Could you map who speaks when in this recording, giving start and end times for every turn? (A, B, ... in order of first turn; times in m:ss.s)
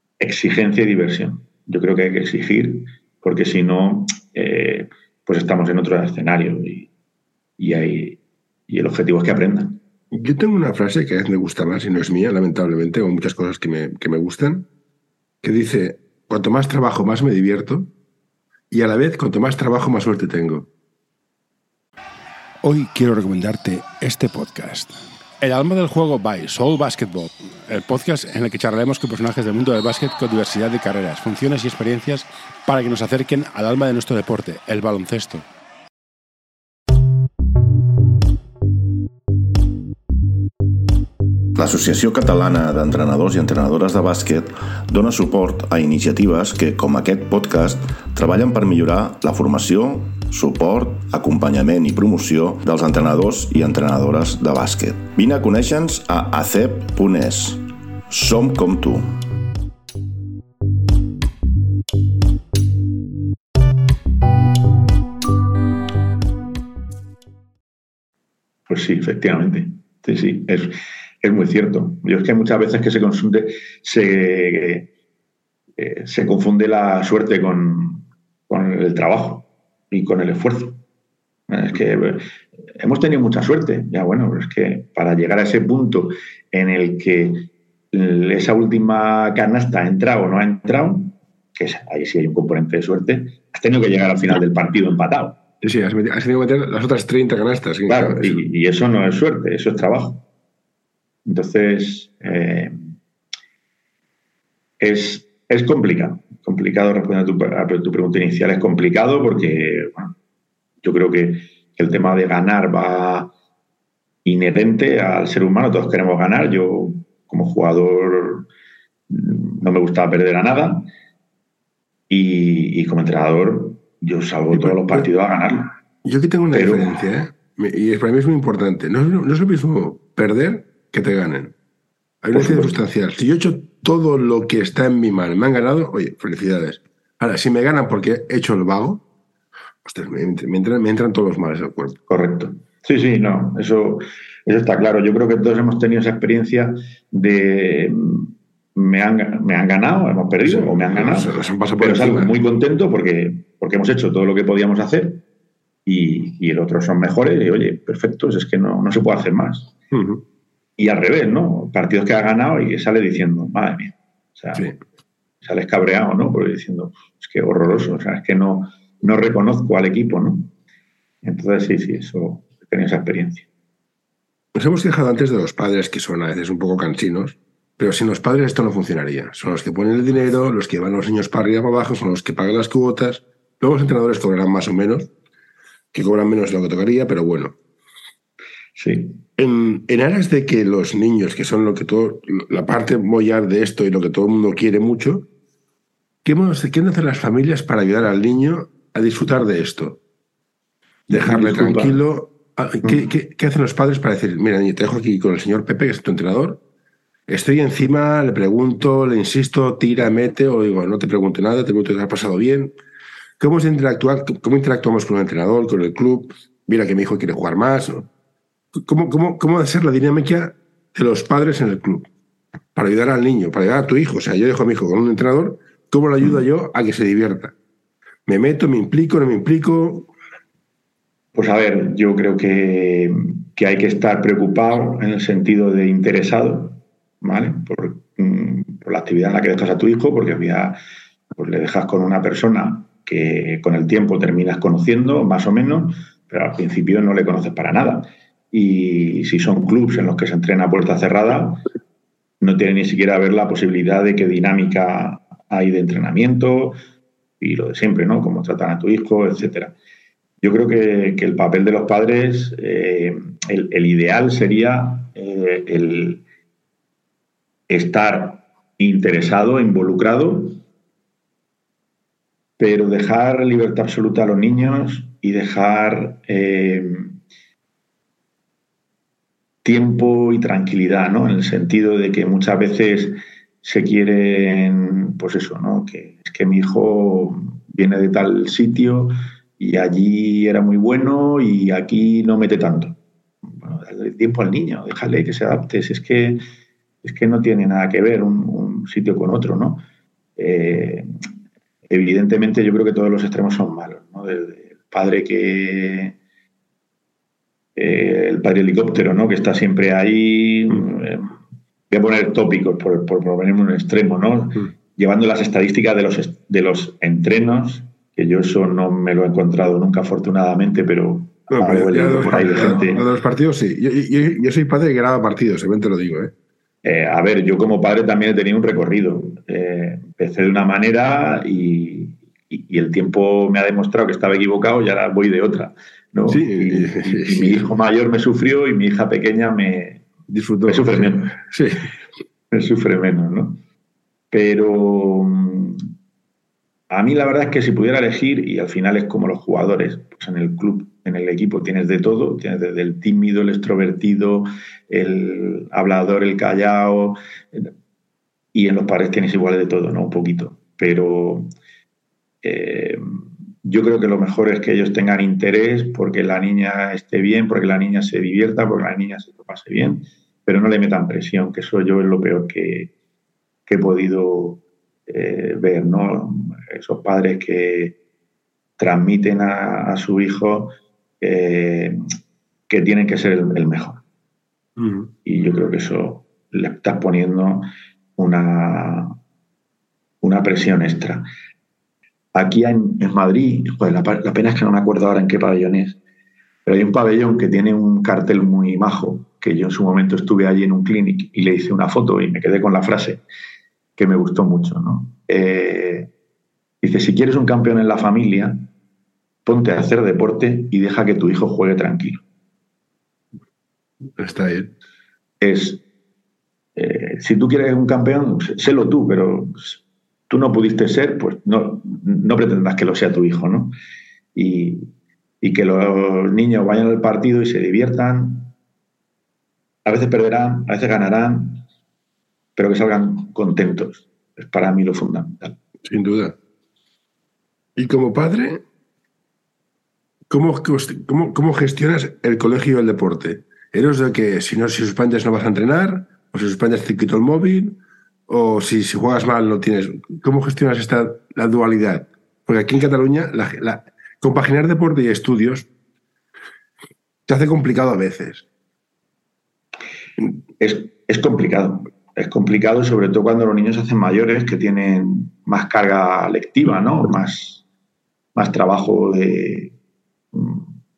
0:00.2-0:06.9 A
0:07.6-0:09.8 A
0:10.1-0:14.7 B
0:15.4-0:17.9 B
0:18.7-0:20.7 B
0:22.6-0:35.4 C
0:41.5-0:59.1 D
1:08.7-1:14.9 A
1:15.8-1:20.8 A
1:21.5-1:35.4 A
1:35.6-1:38.4 B
1:37.9-1:40.2 A
1:41.2-1:42.8 A
1:44.8-1:50.1 A
1:50.8-1:53.3 A
1:54.2-1:58.5 A
1:59.1-2:00.8 A
2:02.1-2:05.7 A
2:04.5-2:05.0 B
2:06.0-2:11.5 B
2:06.5-2:07.0 A
2:12.2-2:19.0 B
2:12.3-2:12.8 A
2:19.8-2:22.0 B
2:22.1-2:35.2 A
2:30.4-2:32.3 B
2:35.8-2:39.7 A
2:39.9-2:40.2 B
2:40.8-2:44.6 A
2:45.4-2:50.5 A
2:51.2-2:53.4 A
2:54.5-3:05.1 B
3:05.9-3:07.6 B
3:08.8-3:09.2 A
3:09.4-3:15.3 B
3:16.2-3:20.0 B
3:21.1-3:22.0 A
3:21.1-3:26.6 B
3:27.3-3:32.8 B
3:33.4-3:38.1 B
3:38.7-3:42.1 B
3:42.7-3:47.5 B
3:48.3-3:50.1 B
3:51.3-4:00.8 A
4:01.3-4:11.6 A
4:12.4-4:16.8 A
4:17.4-4:19.7 A
4:20.4-4:26.2 A
4:27.7-4:30.6 A
4:32.6-4:37.1 A
4:39.6-4:53.0 A
4:53.5-4:56.4 A
4:57.0-4:59.8 A
5:00.4-5:01.1 A
5:01.9-5:06.2 A
5:07.8-5:11.3 A
5:11.9-5:23.0 A
5:21.5-5:26.3 B
5:26.8-5:40.0 A
5:36.3-5:37.7 B
5:40.3-5:41.8 B
5:40.6-5:41.4 A
5:42.5-5:43.6 A
5:44.3-5:45.8 A
5:46.9-5:57.7 A
5:58.5-6:01.5 A
6:02.4-6:03.0 A
6:03.6-6:12.9 A
6:13.7-6:18.0 A
6:18.8-6:22.0 A
6:22.7-6:24.0 A
6:24.8-6:25.1 B
6:25.2-6:29.2 A
6:30.2-6:31.2 A
6:32.3-6:36.0 A
6:36.6-6:43.2 A
6:44.0-6:46.1 A
6:46.8-6:48.6 A
6:49.4-6:52.2 A
6:54.2-6:54.7 B
6:55.4-6:55.8 A
6:56.8-7:03.7 A
7:04.3-7:08.5 A
7:09.8-7:11.6 A
7:12.6-7:15.6 A
7:15.8-7:16.4 B
7:17.8-7:18.6 B
7:20.3-7:35.7 B
7:37.3-7:38.4 B
7:40.6-7:47.6 A
7:48.3-7:49.7 A
7:50.3-7:50.7 A